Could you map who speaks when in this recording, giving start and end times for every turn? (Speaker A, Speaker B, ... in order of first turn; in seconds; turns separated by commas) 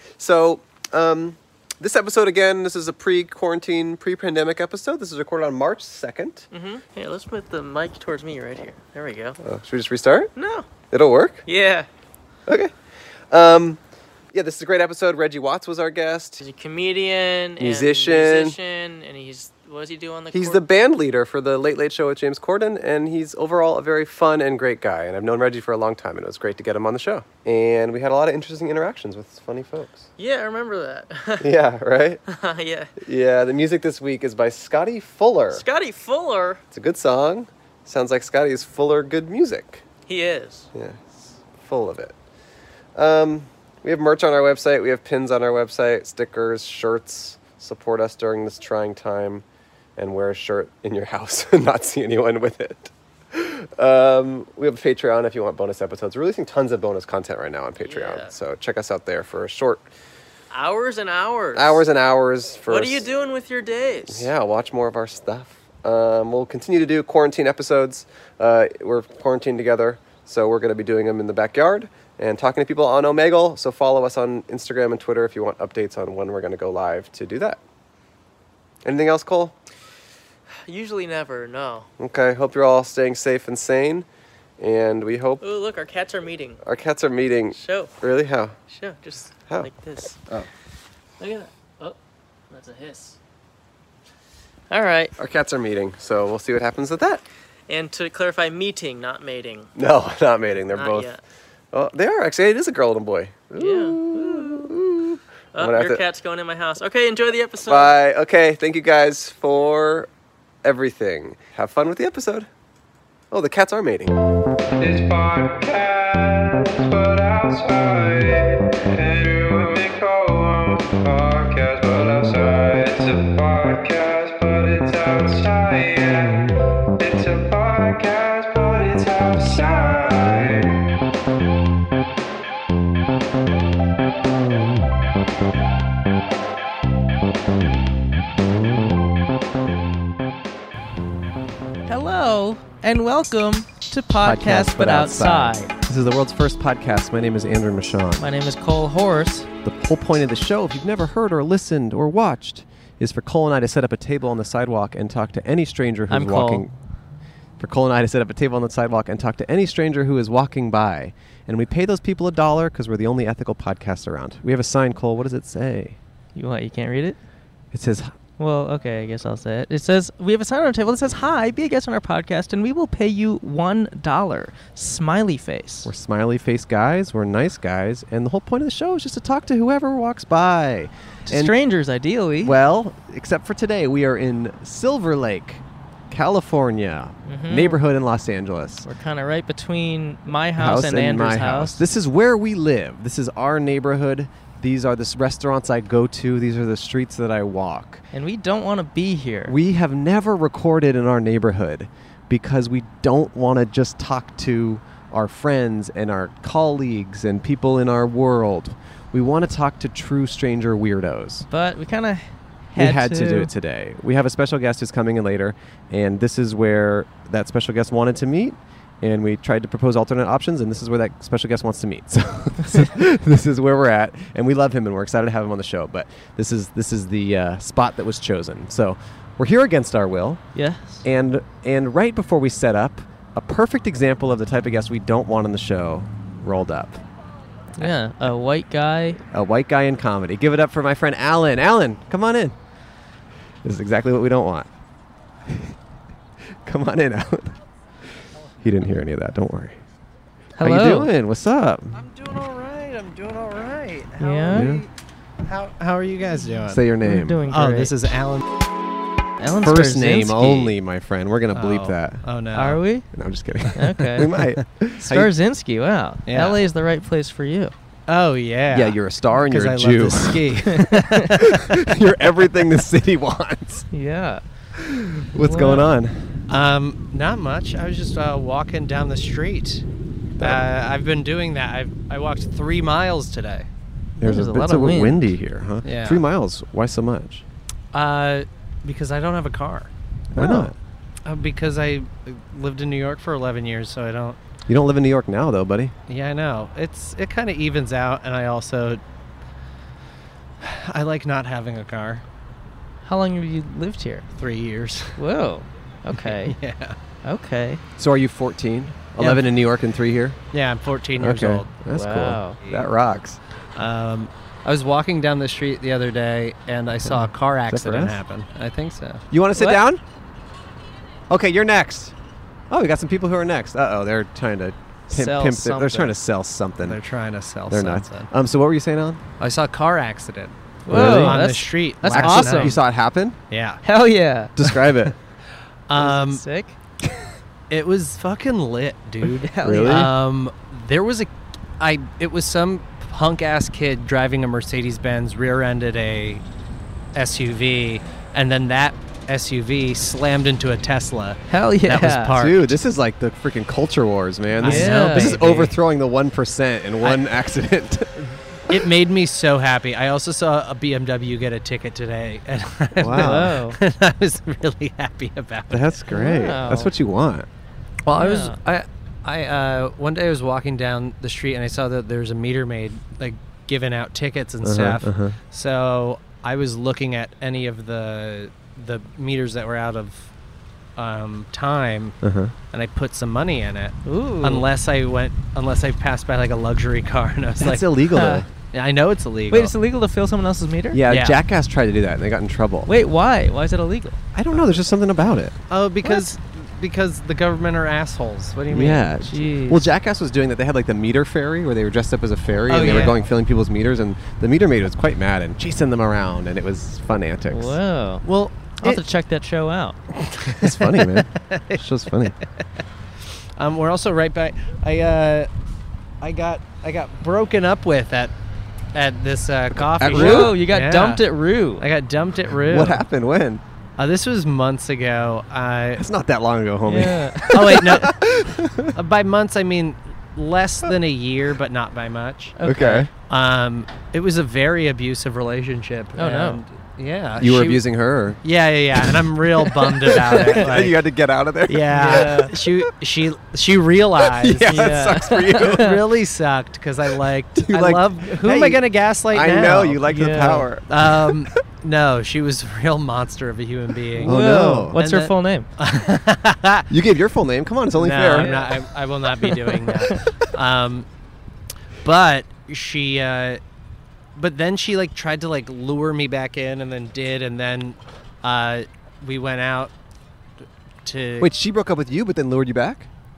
Speaker A: 0.2-6.5, Speaker B: 6.5-9.4, Speaker A: 9.4-10.3, Speaker B: 10.4-10.7, Speaker A: 10.9-11.4, Speaker B: 11.5-11.9, Speaker A: 12.5-12.7, Speaker A: 13.3-13.8, Speaker A: 14.3-16.4, Speaker B: 16.4-20.6, Speaker A: 17.6-18.6, Speaker A: 20.3-30.1, Speaker B: 30.2-31.5, Speaker A: 31.4-32.2, Speaker B: 32.3-32.9, Speaker A: 33.0-35.6, Speaker B: 35.5-36.6, Speaker A: 36.7-39.9, Speaker B: 40.1-40.7, Speaker A: 40.7-42.1, Speaker A: 43.0-49.5, Speaker A: 50.0-59.9, Speaker B: 57.8-58.3, Speaker B: 60.5-61.8, Speaker A: 61.5-63.1, Speaker B: 62.7-64.3, Speaker A: 64.1-77.6, Speaker A: 78.8-79.5, Speaker B: 80.7-81.9, Speaker A: 82.0-84.1, Speaker A: 84.6-85.4, Speaker B: 85.4-86.6, Speaker A: 86.6-88.6, Speaker B: 87.5-87.9, Speaker B: 88.7-90.2, Speaker B: 91.2-92.0, Speaker B: 92.5-93.2, Speaker B: 94.7-95.1, Speaker A: 95.2-97.2, Speaker B: 97.7-99.7, Speaker A: 99.8-101.1, Speaker B: 100.7-101.2, Speaker A: 101.7-106.0, Speaker B: 103.6-104.8, Speaker B: 105.5-108.0, Speaker A: 107.6-110.1, Speaker A: 110.6-112.5, Speaker A: 113.3-114.2, Speaker C: 114.8-130.8, Speaker B: 141.9-145.7, Speaker A: 144.2-148.2, Speaker B: 148.2-149.5, Speaker A: 149.6-156.7, Speaker B: 156.1-156.7, Speaker A: 157.6-166.0, Speaker B: 166.3-167.2, Speaker A: 167.7-168.2, Speaker B: 168.4-175.9, Speaker A: 175.8-181.6, Speaker B: 181.3-182.6, Speaker A: 182.4-188.9, Speaker B: 187.3-187.8, Speaker B: 188.8-191.8, Speaker A: 190.6-198.0, Speaker B: 198.1-199.6, Speaker A: 199.5-211.5, Speaker B: 211.5-213.5, Speaker A: 212.8-237.0, Speaker B: 230.6-231.1, Speaker B: 237.8-239.2, Speaker A: 239.3-242.6, Speaker A: 243.6-244.7, Speaker A: 245.5-245.8, Speaker A: 246.7-247.6, Speaker A: 248.6-249.8, Speaker B: 250.6-251.1, Speaker A: 250.6-252.0, Speaker D: 251.9-254.9, Speaker B: 254.2-254.7, Speaker A: 254.5-254.8, Speaker D: 255.4-256.8, Speaker A: 256.7-257.4, Speaker B: 257.0-257.9, Speaker D: 257.5-258.4, Speaker B: 259.4-260.7, Speaker A: 259.6-262.3, Speaker D: 261.5-262.8, Speaker B: 262.5-263.1, Speaker A: 263.1-265.3, Speaker B: 263.8-264.3, Speaker B: 265.0-267.7, Speaker D: 266.3-266.6, Speaker D: 268.1-271.8, Speaker A: 268.7-270.8, Speaker A: 271.4-273.9, Speaker B: 273.9-274.4, Speaker A: 274.8-276.4, Speaker B: 275.4-275.9, Speaker D: 276.5-279.9, Speaker A: 280.4-280.7, Speaker D: 280.4-283.7, Speaker A: 284.2-287.4, Speaker B: 284.2-285.3, Speaker D: 285.8-286.2, Speaker D: 287.9-290.7, Speaker A: 290.3-290.8, Speaker D: 291.2-294.4, Speaker A: 294.7-295.9, Speaker D: 296.1-299.0, Speaker D: 300.6-302.2, Speaker B: 303.1-304.2, Speaker D: 304.4-305.2, Speaker B: 305.2-306.6, Speaker D: 306.1-307.0, Speaker B: 307.2-307.8, Speaker A: 308.0-310.4, Speaker D: 309.2-309.4, Speaker D: 310.5-311.8, Speaker A: 311.2-313.4, Speaker B: 311.9-312.6, Speaker D: 313.8-319.2, Speaker A: 317.1-318.2, Speaker A: 319.3-320.0, Speaker B: 319.6-319.8, Speaker A: 321.3-322.1, Speaker A: 322.7-327.0, Speaker B: 325.1-326.1, Speaker D: 326.9-328.3, Speaker A: 327.7-329.2, Speaker D: 329.4-332.8, Speaker B: 330.9-332.8, Speaker A: 330.9-331.4, Speaker A: 332.1-333.4, Speaker D: 333.5-333.8, Speaker B: 333.9-334.5, Speaker A: 334.6-335.1, Speaker D: 335.9-336.4, Speaker B: 336.0-336.7, Speaker D: 337.7-346.4, Speaker B: 339.4-340.1, Speaker A: 339.6-340.1, Speaker D: 347.1-352.8, Speaker B: 351.5-352.4, Speaker A: 352.4-358.8, Speaker D: 354.6-355.8, Speaker B: 354.6-355.4, Speaker D: 357.0-357.3, Speaker D: 358.2-366.0, Speaker A: 363.0-363.5, Speaker B: 363.1-363.8, Speaker A: 365.7-367.5, Speaker B: 366.1-366.9, Speaker D: 368.1-380.3, Speaker B: 368.1-368.6, Speaker A: 374.6-375.4, Speaker D: 381.0-382.2, Speaker A: 382.2-382.5, Speaker D: 382.7-387.9, Speaker B: 384.1-384.7, Speaker A: 387.6-388.5, Speaker B: 388.1-388.5, Speaker D: 388.7-389.7, Speaker B: 389.5-391.0, Speaker A: 390.9-392.9, Speaker D: 391.1-391.4, Speaker B: 392.9-394.2, Speaker A: 394.4-396.3, Speaker D: 395.7-399.1, Speaker A: 398.7-407.8, Speaker B: 399.3-399.8, Speaker D: 402.7-403.2, Speaker B: 407.5-408.2, Speaker D: 408.3-408.7, Speaker B: 408.8-410.0, Speaker D: 410.4-411.8, Speaker A: 410.6-412.4, Speaker D: 413.6-415.5, Speaker D: 416.2-418.3, Speaker D: 418.9-423.0, Speaker A: 419.8-420.6, Speaker B: 420.1-421.9, Speaker A: 422.6-423.6, Speaker D: 424.0-426.1, Speaker A: 426.0-428.9, Speaker B: 426.9-428.0, Speaker D: 427.5-428.1, Speaker D: 428.9-432.6, Speaker B: 432.6-433.1, Speaker A: 432.6-433.1, Speaker D: 433.3-437.9, Speaker B: 436.2-436.6, Speaker A: 437.4-438.4, Speaker D: 438.4-440.9, Speaker A: 440.1-442.7, Speaker D: 441.7-445.0, Speaker B: 441.9-442.5, Speaker A: 444.3-445.9, Speaker B: 444.6-446.0, Speaker D: 445.5-450.1, Speaker A: 447.6-451.5, Speaker B: 450.1-450.7, Speaker D: 450.9-456.9, Speaker B: 454.2-455.7, Speaker A: 454.2-455.0, Speaker A: 456.9-458.6, Speaker D: 458.0-461.1, Speaker B: 458.3-458.7, Speaker B: 459.4-460.2, Speaker D: 462.0-463.6, Speaker D: 464.4-469.9, Speaker D: 471.1-471.5, Speaker A: 471.4-473.1